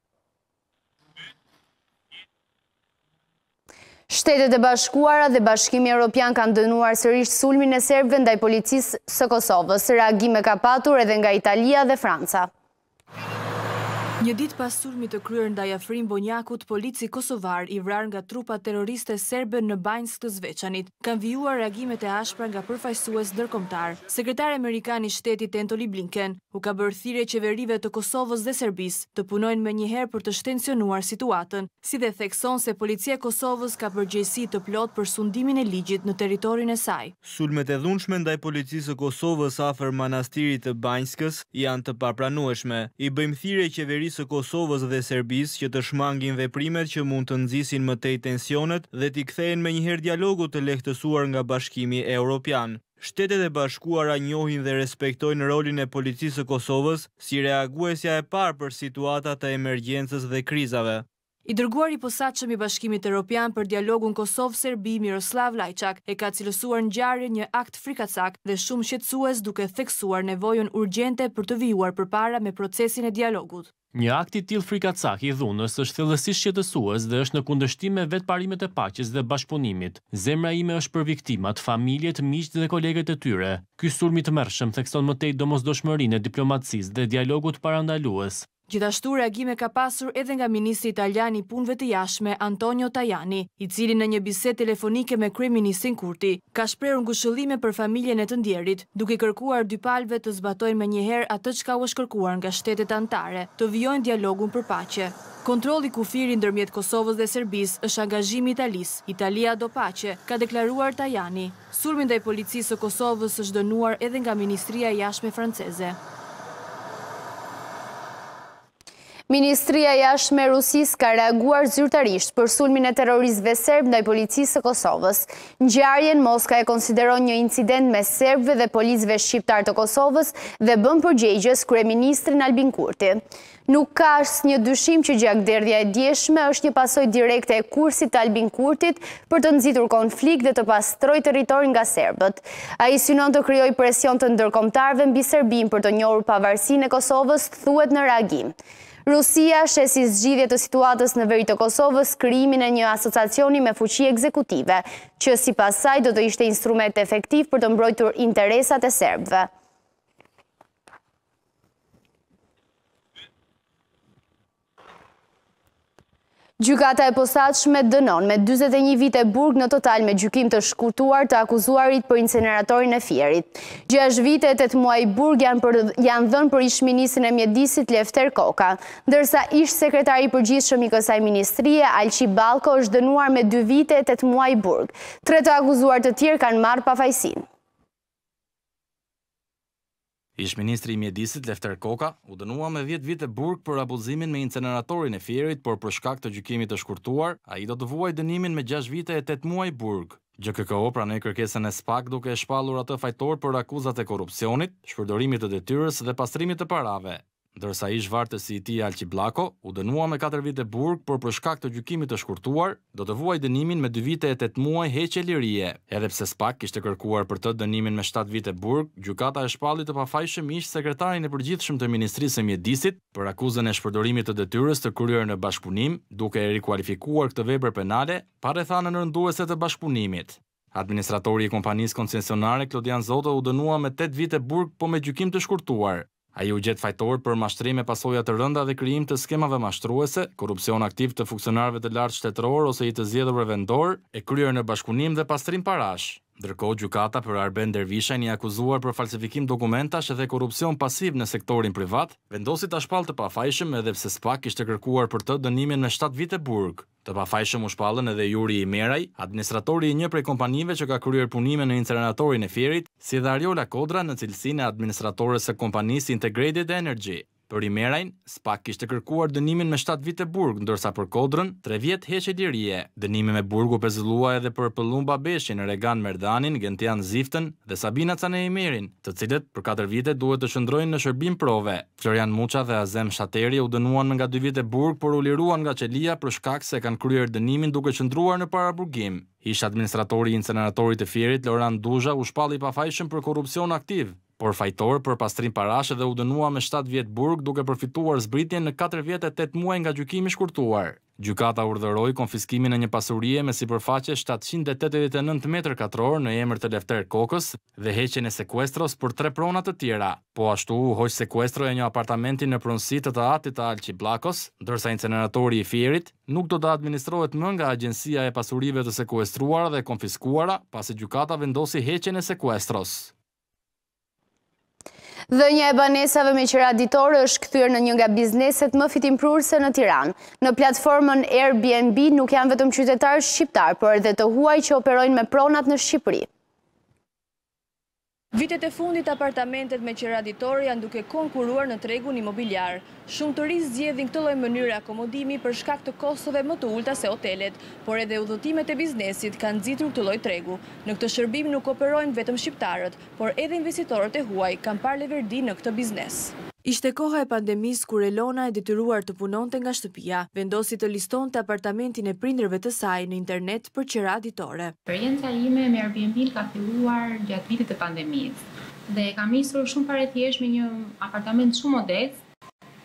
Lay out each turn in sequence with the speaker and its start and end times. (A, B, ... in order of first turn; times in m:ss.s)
0:04.1-0:12.5 A
0:14.2-0:37.2 B
0:37.2-1:01.0 C
1:01.5-1:13.7 B
1:13.9-1:28.5 D
1:28.7-1:56.0 B
1:59.3-2:28.5 A
2:29.1-2:39.5 A
2:46.6-3:07.4 A
3:10.4-5:23.1 E
5:25.3-5:36.3 A
5:39.4-5:42.3 B
5:42.8-5:43.3 B
5:44.4-5:45.2 B
5:45.8-5:46.4 B
5:47.0-5:47.5 C
5:47.6-5:49.9 B
5:50.8-5:51.1 C
5:52.9-5:53.2 B
5:54.0-5:54.4 C
5:55.4-5:55.7 B
5:56.6-6:04.8 B
6:04.9-6:12.2 F